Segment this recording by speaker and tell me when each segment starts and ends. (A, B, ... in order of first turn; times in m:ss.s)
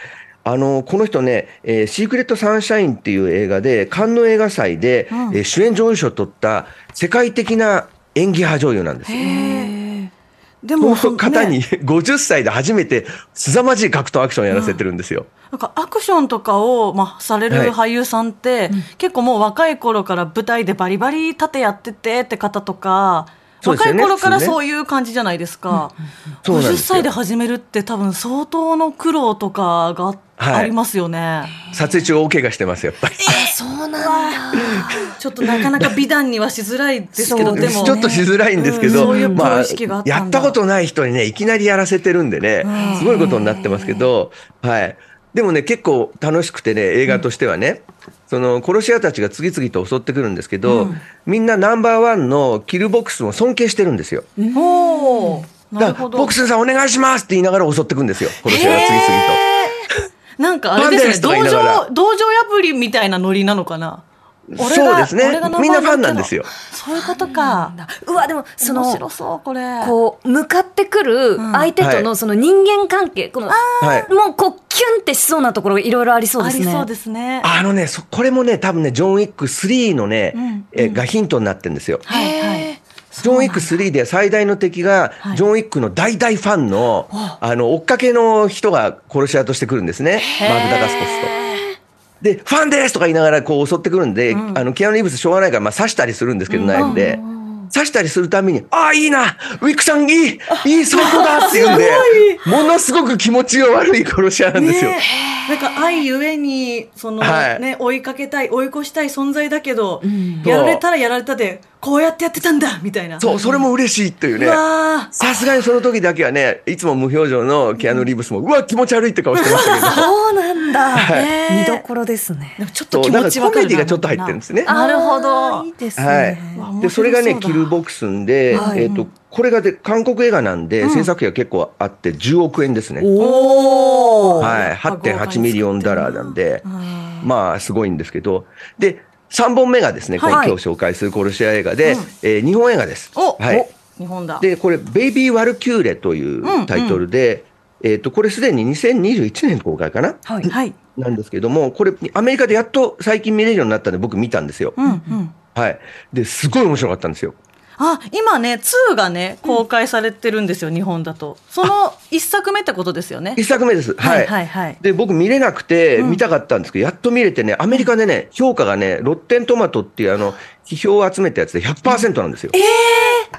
0:00.4-0:09.4 A
0:05.1-0:05.4 B
0:09.1-0:09.7 B
0:09.2-0:10.1 C
0:10.6-0:11.6 B
0:10.8-0:15.3 A
0:14.5-0:14.8 B
0:15.5-0:31.6 B
0:17.5-0:17.8 A
0:23.6-0:24.6 A
0:26.4-0:27.1 A
0:30.4-0:30.7 A
0:31.6-0:32.0 C
0:31.7-0:33.3 A
0:33.2-0:38.0 B
0:33.3-0:35.1 C
0:34.6-0:36.0 A
0:37.2-0:54.3 A
0:37.2-0:38.3 C
0:38.6-0:40.6 B
0:38.8-0:39.5 C
0:42.6-0:43.2 B
0:42.7-0:44.1 C
0:50.7-0:51.0 B
0:50.7-0:51.0 C
0:54.4-0:55.5 C
0:54.5-0:56.3 B
0:55.8-0:59.4 A
0:58.4-0:59.8 B
0:59.5-0:59.7 C
1:00.4-1:04.0 B
1:00.8-1:01.8 A
1:04.5-1:06.5 A
1:04.6-1:07.8 B
1:06.9-1:09.1 C
1:08.6-1:10.0 B
1:09.8-1:16.9 C
1:11.4-1:11.7 B
1:11.8-1:12.1 A
1:13.5-1:14.1 B
1:13.8-1:14.1 A
1:16.4-1:17.5 B
1:17.4-1:22.0 A
1:20.3-1:21.0 B
1:22.1-1:23.7 B
1:22.1-1:22.8 C
1:23.2-1:31.3 A
1:27.1-1:27.4 C
1:30.2-1:31.8 C
1:30.4-1:31.6 B
1:32.2-1:37.2 A
1:34.3-1:34.6 B
1:36.5-1:37.2 B
1:36.8-1:37.7 C
1:37.7-1:45.0 A
1:40.9-1:42.4 B
1:41.1-1:41.7 C
1:44.5-1:53.6 B
1:45.0-1:46.0 C
1:47.2-1:47.6 A
1:50.0-1:50.5 C
1:50.4-1:50.8 A
1:53.2-1:54.6 A
1:54.4-1:55.2 B
1:55.2-2:00.1 A
1:59.4-2:00.1 B
1:59.9-2:02.6 C
2:00.8-2:01.8 B
2:01.0-2:01.3 A
2:02.6-2:05.7 B
2:02.9-2:04.7 A
2:04.7-2:06.7 C
2:06.0-2:13.1 A
2:06.5-2:07.8 B
2:08.5-2:08.9 C
2:08.5-2:09.1 B
2:10.8-2:11.1 B
2:13.0-2:14.6 C
2:13.2-2:17.3 B
2:14.4-2:16.7 A
2:17.2-2:23.7 A
2:20.2-2:20.4 B
2:20.3-2:20.6 C
2:21.8-2:22.1 B
2:23.2-2:24.5 B
2:24.4-2:30.4 A
2:26.4-2:27.0 B
2:30.3-2:30.5 C
2:30.5-2:30.8 B
2:31.0-2:34.8 A
2:34.8-2:35.3 B
2:34.8-2:35.2 C
2:35.6-2:37.4 A
2:37.8-2:43.4 B
2:43.4-2:52.6 A
2:44.0-2:44.8 B
2:46.0-2:46.2 B
2:51.9-2:53.3 B
2:52.6-2:53.2 C